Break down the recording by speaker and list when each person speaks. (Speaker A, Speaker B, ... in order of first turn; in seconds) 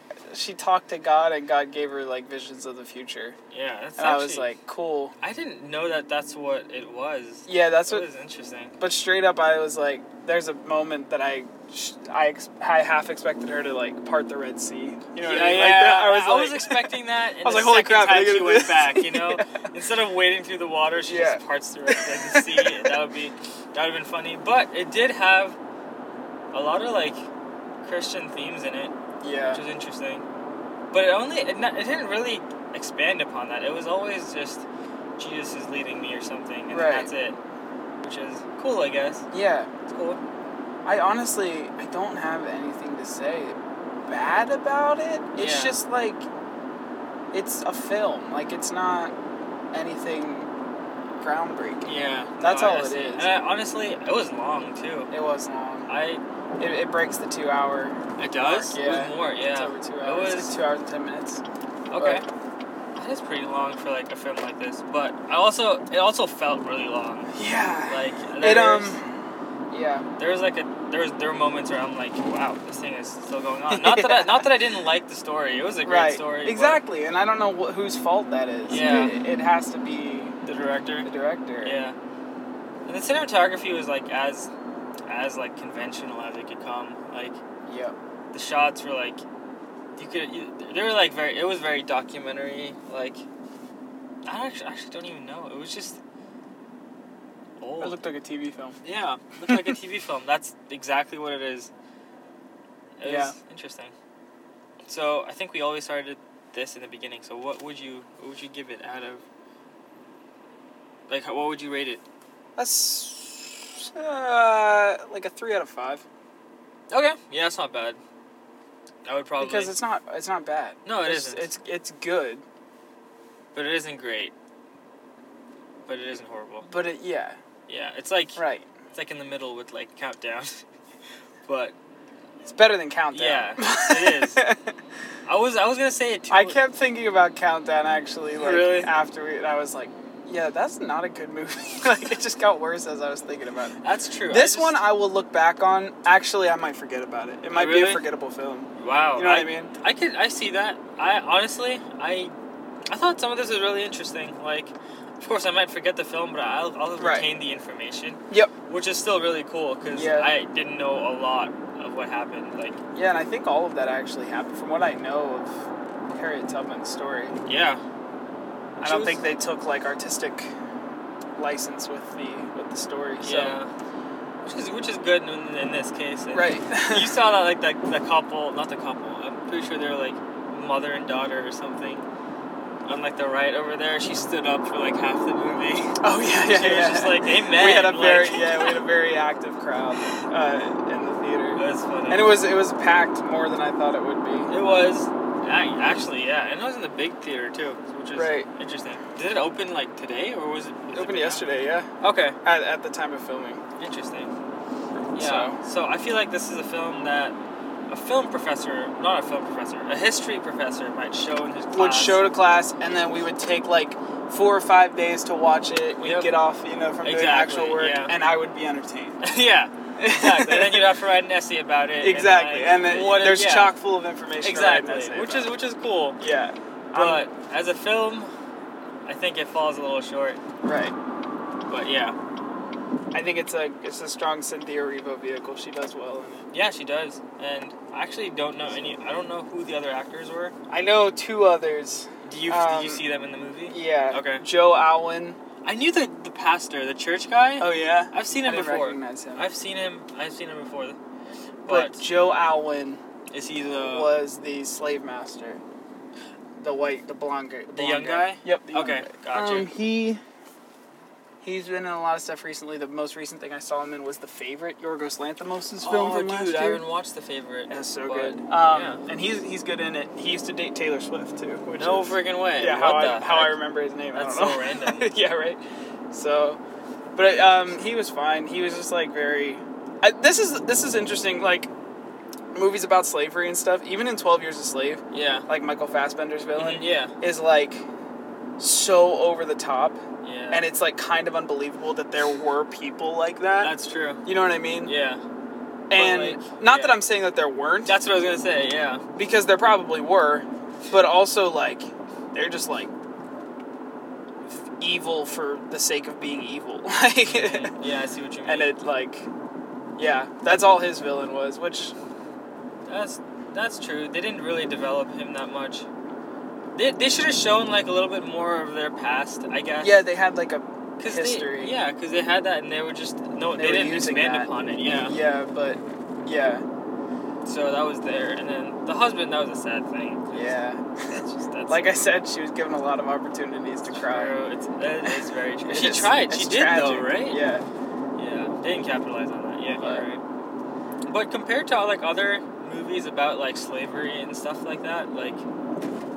Speaker A: 0.3-3.4, 4.0-5.2, 7.5-8.1, 8.8-19.5, 21.0-22.9, 29.2-29.6, 36.7-37.1, 39.3-39.7, 40.9-46.3, 47.3-49.1, 49.7-50.5, 51.2-53.5, 55.1-55.9, 56.6-61.4, 62.0-62.2, 67.3-69.2, 69.7-70.1, 73.7-74.5, 75.8-80.4, 81.0-81.8, 87.7-88.0, 97.8-98.8, 103.0-103.4, 112.6-116.0, 119.4-122.4, 126.7-127.4, 128.4-128.7, 132.4-134.8, 136.3-149.7, 157.0-157.3, 159.9-160.3, 162.9-167.4, 168.8-170.5, 171.4-173.6, 176.3-177.2, 186.0-194.5, 198.1-198.5, 200.9-201.9, 202.4-203.6, 204.9-205.6, 211.7-219.2, 220.0-220.9, 222.0-225.5, 226.2-227.3, 230.6-231.0, 233.1-236.5, 240.7-243.1, 243.7-245.4, 247.6-249.5, 251.7-253.0, 253.7-255.6, 256.6-260.2, 261.4-266.8, 267.7-275.6, 276.1-276.6, 277.1-281.7, 282.5-287.9, 288.6-290.0, 290.5-293.7, 294.2-294.9, 295.9-298.0, 299.1-302.9, 304.8-307.8, 308.4-309.3, 310.0-311.9, 319.8-321.8, 323.5-326.6, 330.3-334.4, 335.0-337.7, 339.6-340.1
Speaker B: 3.5-4.5, 5.2-8.8, 15.2-25.6, 26.5-27.3, 27.8-28.9, 29.5-30.2, 30.9-34.6, 35.2-37.4, 38.0-39.3, 39.9-40.2, 45.4-45.8, 51.8-55.1, 55.9-56.2, 58.2-60.6, 61.9-62.2, 63.0-67.3, 67.9-69.0, 70.2-76.8, 78.7-79.2, 80.5-81.1, 81.6-82.0, 82.8-84.5, 85.1-87.4, 88.3-89.2, 90.0-93.2, 94.3-96.0, 97.6-98.0, 98.8-101.7, 103.0-103.9, 104.9-109.2, 111.1-112.0, 116.9-118.0, 119.0-119.8, 120.8-121.5, 123.5-124.3, 125.9-126.7, 127.7-130.6, 131.5-131.8, 133.1-134.4, 135.3-136.6, 138.4-138.9, 143.8-144.8, 147.5-148.0, 148.8-152.3, 152.9-162.8, 167.4-167.8, 168.8-169.3, 173.2-173.7, 174.4-182.0, 182.8-188.8, 191.6-192.4, 194.5-201.5, 202.0-202.4, 203.8-204.3, 205.2-212.3, 216.0-216.3, 217.0-218.2, 219.2-223.8, 224.4-226.2, 226.9-228.3, 229.1-230.4, 231.7-232.2, 236.5-240.6, 242.2-244.4, 245.6-251.0, 251.7-252.0, 253.3-254.2, 257.7-259.7, 265.8-269.0, 271.8-275.1, 285.1-285.5, 286.6-287.1, 290.2-290.7, 293.6-294.2, 294.8-295.2, 295.9-297.0, 297.9-299.0, 307.2-308.7, 312.9-315.9, 316.7-320.1, 321.0-325.2, 327.4-330.6, 331.1-332.0, 333.9-337.4, 338.2-340.2, 341.0-345.4